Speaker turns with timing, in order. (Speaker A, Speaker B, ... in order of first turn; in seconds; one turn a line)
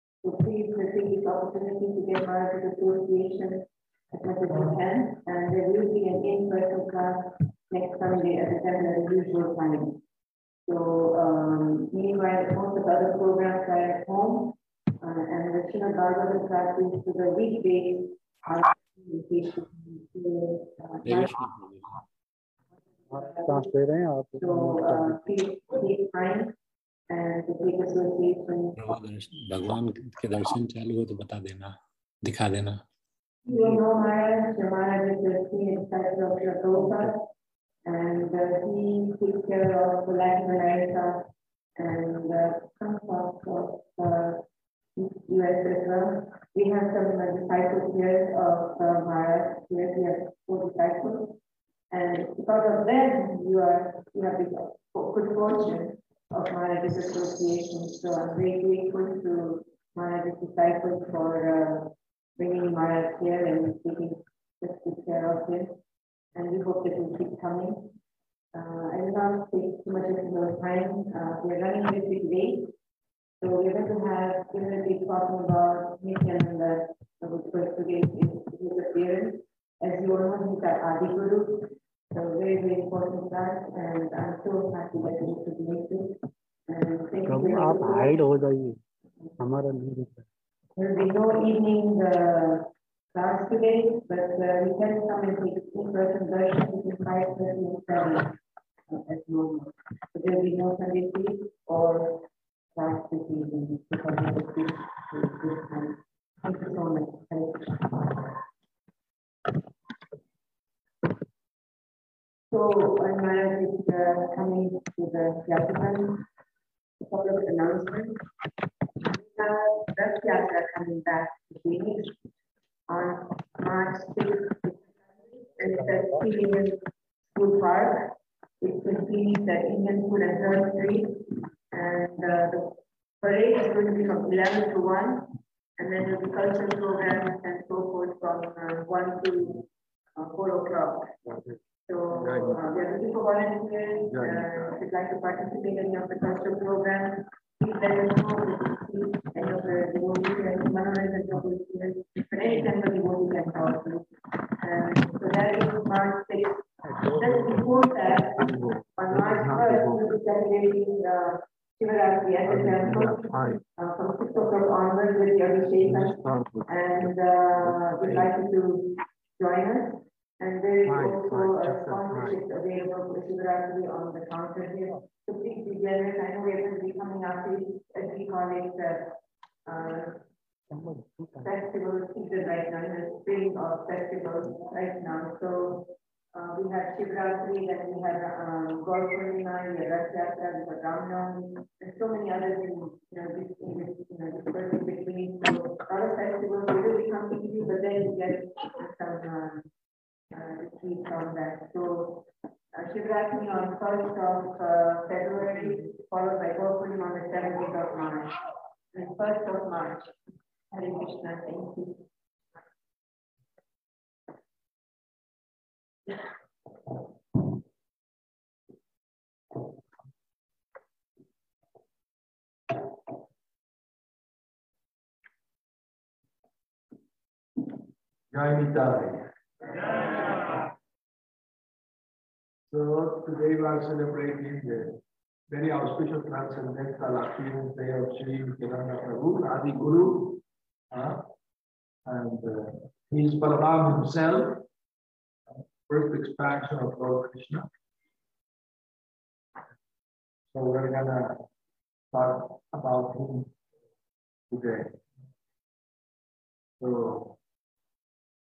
Speaker A: 0.2-10.0
Speaker A: 10.7-21.4
Speaker B: 21.0-21.8
Speaker A: 23.0-23.7
Speaker C: 23.1-25.2
Speaker A: 24.4-26.5
Speaker A: 27.1-28.8
Speaker B: 28.8-32.8
Speaker A: 33.4-37.3
Speaker A: 37.9-44.4
Speaker A: 45.0-51.4
Speaker A: 51.9-65.8
Speaker A: 66.3-68.0
Speaker A: 68.5-72.7
Speaker A: 73.4-88.2
Speaker C: 87.3-88.8
Speaker C: 89.4-90.3
Speaker A: 90.8-108.3
Speaker A: 112.5-116.2
Speaker A: 117.0-118.2
Speaker A: 119.0-122.2
Speaker A: 122.9-141.1
Speaker D: 141.2-141.6
Speaker A: 141.8-180.2
Speaker D: 142.2-142.6
Speaker D: 144.1-144.7
Speaker D: 158.5-160.0
Speaker D: 162.5-163.6
Speaker D: 166.1-166.7
Speaker D: 170.9-171.2
Speaker C: 180.7-181.3
Speaker A: 181.4-199.7
Speaker A: 200.3-208.3
Speaker A: 208.9-210.1
Speaker A: 210.7-212.1
Speaker D: 228.3-230.6
Speaker D: 232.7-241.3
Speaker D: 242.1-244.6
Speaker D: 245.5-247.7
Speaker D: 250.5-251.4
Speaker D: 252.1-253.5
Speaker D: 254.5-254.9
Speaker D: 256.8-257.4